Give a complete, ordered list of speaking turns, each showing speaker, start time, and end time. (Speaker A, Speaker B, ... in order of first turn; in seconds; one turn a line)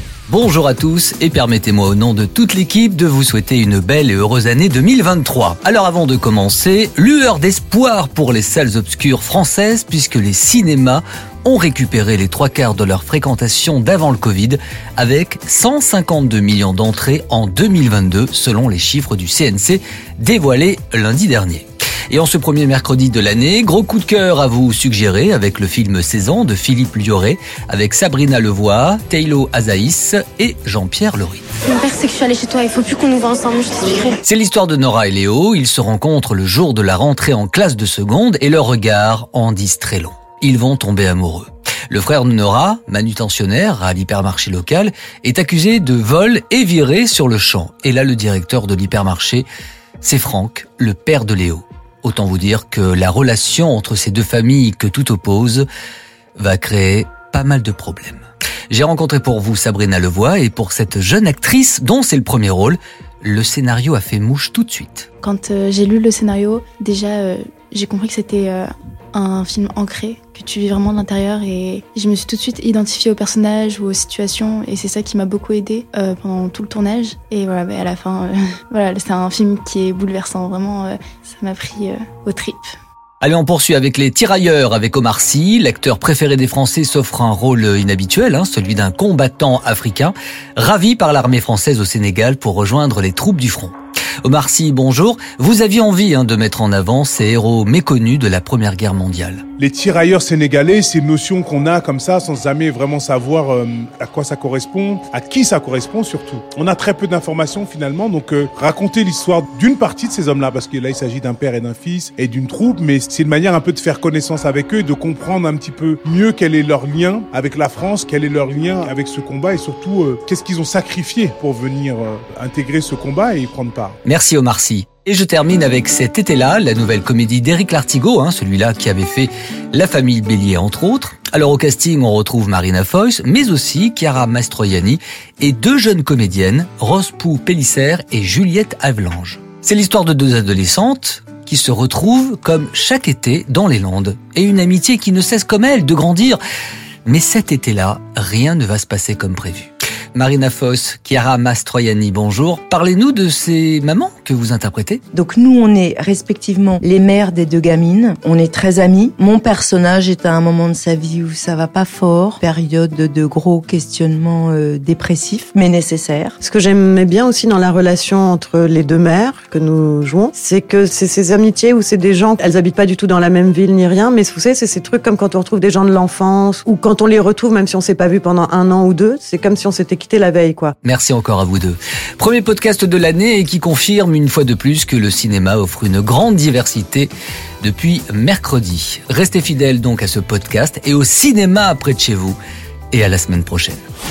Speaker A: 0.3-31.4
Speaker B: 31.6-34.2
Speaker A: 34.2-49.5
Speaker A: 50.0-55.6
Speaker A: 56.4-65.1
Speaker C: 65.2-82.7
Speaker A: 83.2-99.4
Speaker D: 99.6-124.0
Speaker A: 124.0-146.4
Speaker A: 147.1-155.0
Speaker E: 155.1-166.3
Speaker B: 166.4-180.7
Speaker A: 180.8-192.4
Speaker A: 192.9-193.8